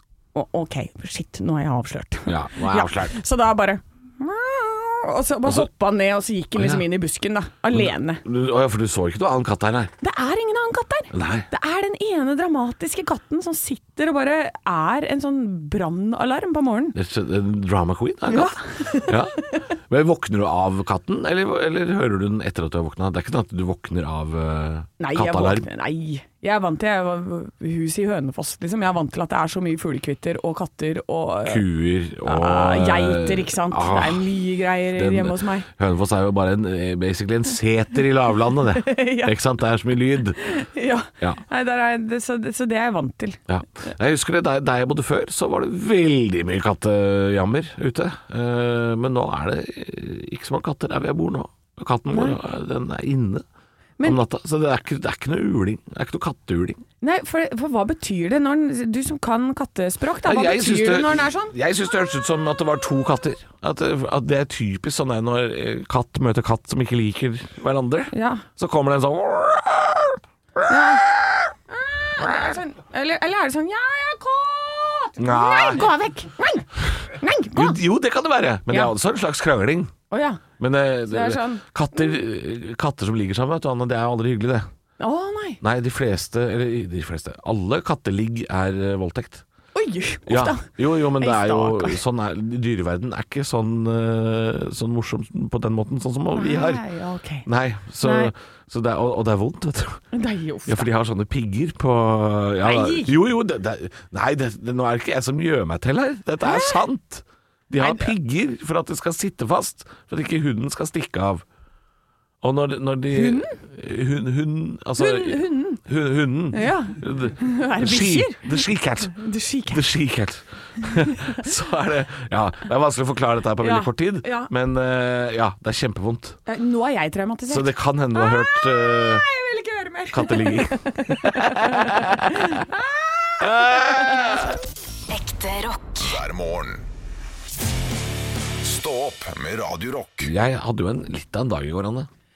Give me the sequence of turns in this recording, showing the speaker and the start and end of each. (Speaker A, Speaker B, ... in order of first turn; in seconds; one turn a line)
Speaker A: 0.3-8.2
Speaker B: 2.3-3.2
Speaker B: 6.6-6.8
Speaker B: 7.7-9.9
Speaker A: 10.0-17.0
Speaker B: 11.1-11.5
Speaker B: 16.9-25.6
Speaker A: 18.3-19.6
Speaker A: 25.0-31.6
Speaker B: 31.4-34.3
Speaker A: 32.2-35.7
Speaker B: 35.0-40.4
Speaker A: 38.8-39.4
Speaker A: 40.4-43.4
Speaker B: 43.5-53.4
Speaker A: 52.1-52.4
Speaker B: 54.0-56.8
Speaker A: 57.0-61.5
Speaker B: 60.2-71.5
Speaker A: 68.1-68.5
Speaker A: 70.7-71.0
Speaker A: 71.7-77.8
Speaker B: 72.2-72.5
Speaker B: 75.2-75.9
Speaker B: 77.0-79.9
Speaker A: 80.1-80.4
Speaker B: 80.6-84.7
Speaker A: 81.1-81.6
Speaker A: 85.0-85.6
Speaker B: 85.6-89.5
Speaker A: 89.8-92.0
Speaker B: 90.3-96.8
Speaker A: 96.3-97.5
Speaker B: 97.5-100.0
Speaker A: 98.0-98.3
Speaker A: 100.1-100.9
Speaker B: 100.7-111.5
Speaker A: 102.6-103.2
Speaker A: 106.4-106.8
Speaker A: 107.8-108.1
Speaker B: 112.4-119.2
Speaker A: 113.1-113.6
Speaker A: 115.0-115.8
Speaker A: 116.5-119.9
Speaker B: 119.7-126.4
Speaker A: 120.8-121.4
Speaker A: 123.6-124.5
Speaker A: 126.5-134.5
Speaker B: 127.5-129.2
Speaker B: 130.1-132.6
Speaker B: 133.4-134.5
Speaker C: 135.1-136.8
Speaker C: 138.6-140.3
Speaker B: 140.2-142.1